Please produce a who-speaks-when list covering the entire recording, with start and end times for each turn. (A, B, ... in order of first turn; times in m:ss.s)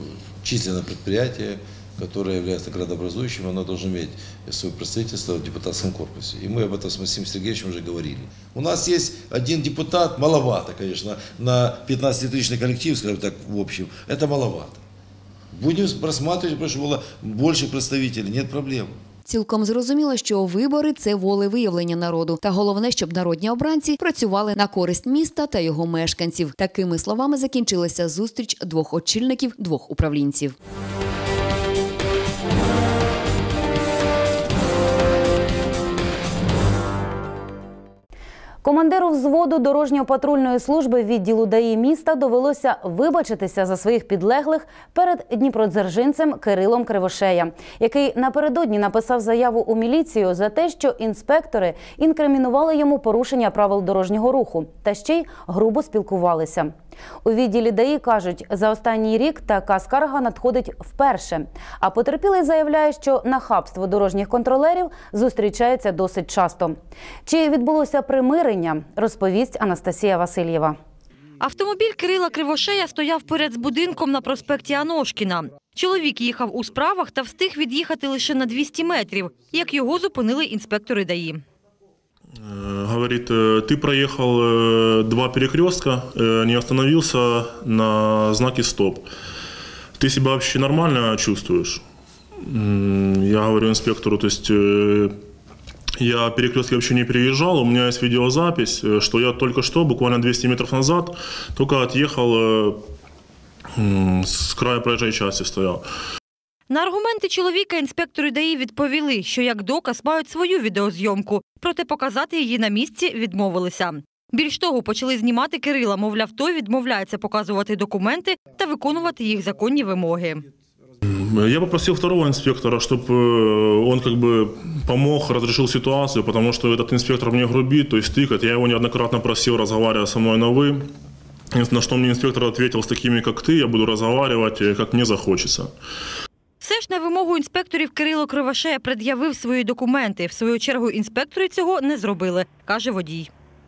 0:00.4-0:14.8 A
0:15.5-0:18.9 A
0:19.2-0:30.5 B
0:38.6-0:56.7 C
0:57.2-1:06.8 C
1:07.2-1:10.8 C
1:11.4-1:21.4 D
1:22.5-1:29.1 E
1:30.0-1:31.8 E
1:32.4-1:35.2 E
1:36.0-1:42.8 E
1:43.8-1:45.8 E
1:46.7-2:00.5 D
2:01.0-2:10.9 E
2:11.5-2:15.7 E
2:16.6-2:23.3 D